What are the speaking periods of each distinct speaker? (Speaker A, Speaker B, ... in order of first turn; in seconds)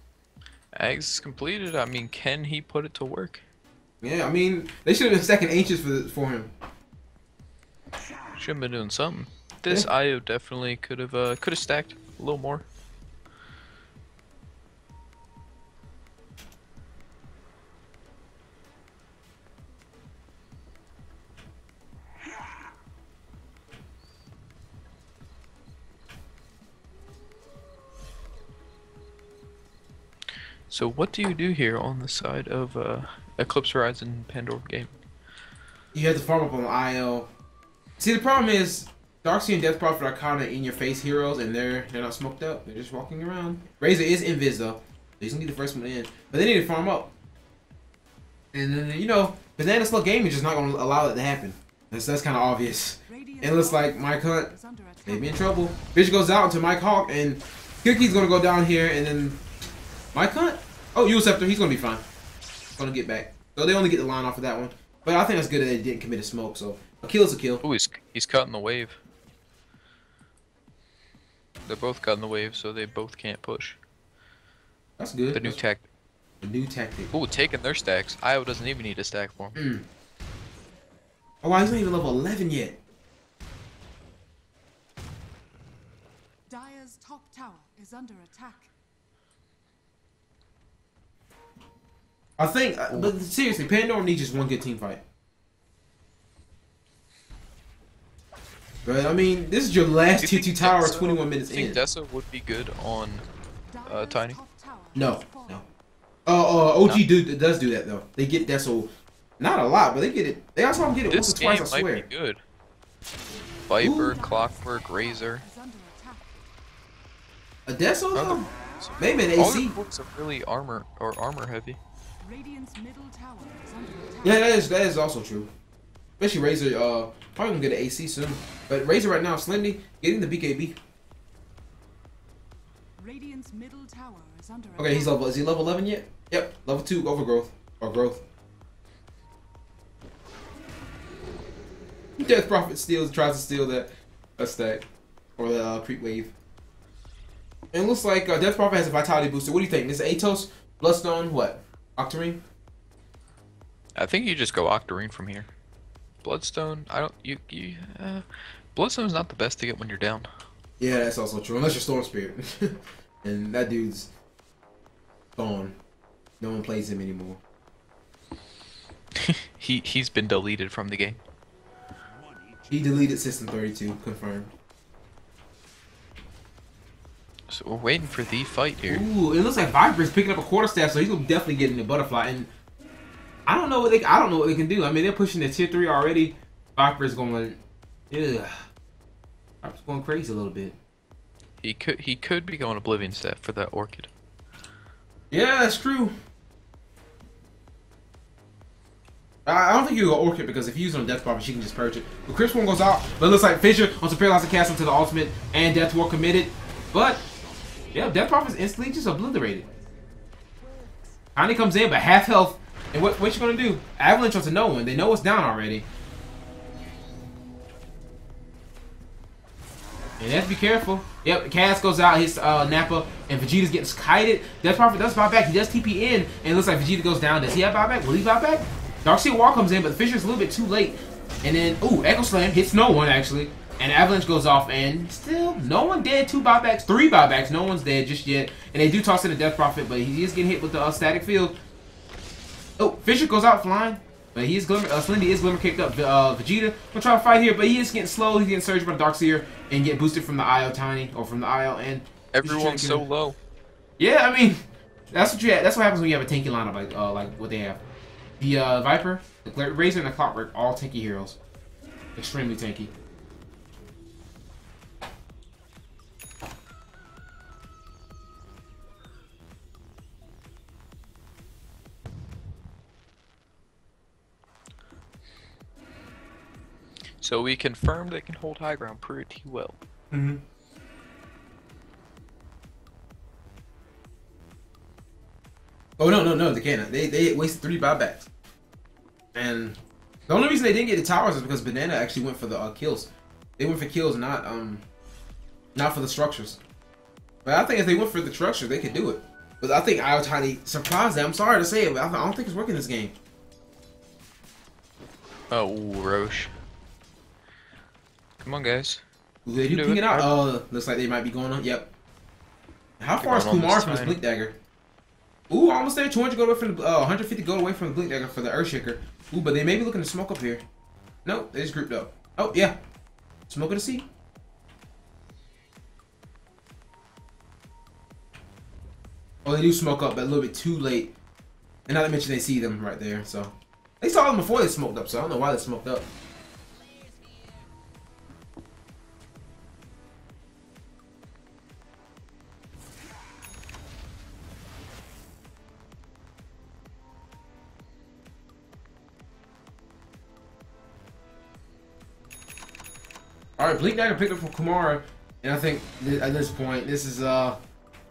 Speaker A: 0.8-3.4, 8.3-12.7, 30.7-34.9, 67.6-69.0, 71.7-73.8, 75.3-75.9, 77.1-79.6, 100.2-103.3, 103.9-104.4, 111.1-112.4, 113.7-115.4, 118.1-121.8, 154.0-155.5, 156.2-160.3, 169.2-171.2, 177.5-179.0, 191.6-194.1, 252.3-253.4, 277.2-279.8, 305.5-306.5, 308.4-309.0, 309.6-310.3, 313.2-314.2
Speaker B: 4.0-6.5, 35.9-37.3, 38.0-47.1, 48.5-54.5, 55.1-59.4, 60.1-62.0, 62.8-67.6, 75.0-75.6, 76.4-77.1, 79.6-79.9, 81.4-82.8, 92.4-95.0, 98.8-101.8, 105.0-105.6, 106.3-112.0, 113.8-114.2, 117.7-118.5, 119.0-119.8, 124.2-125.5, 126.2-130.8, 134.8-138.2, 142.2-144.8, 145.4-146.3, 147.7-152.4, 160.8-164.1, 165.4-165.8, 166.4-167.4, 172.7-174.5, 178.8-182.5, 183.5-187.6, 188.1-188.7, 189.6-190.8, 195.3-196.1, 199.5-207.3, 207.9-209.7, 211.3-215.9, 220.2-241.6, 242.8-253.1, 254.0-257.8, 258.4-261.4, 262.2-262.9, 280.1-280.4, 286.0-288.3, 289.3-294.8, 295.8-296.6, 297.4-303.1, 309.5-311.9, 313.0-314.6, 315.5-320.6, 321.2-322.8, 323.5-324.1, 329.4-331.1, 331.9-336.1, 353.6-357.6
Speaker C: 53.1-55.9, 86.5-88.7, 103.7-105.7, 113.8-116.4, 122.2-124.6, 133.0-135.5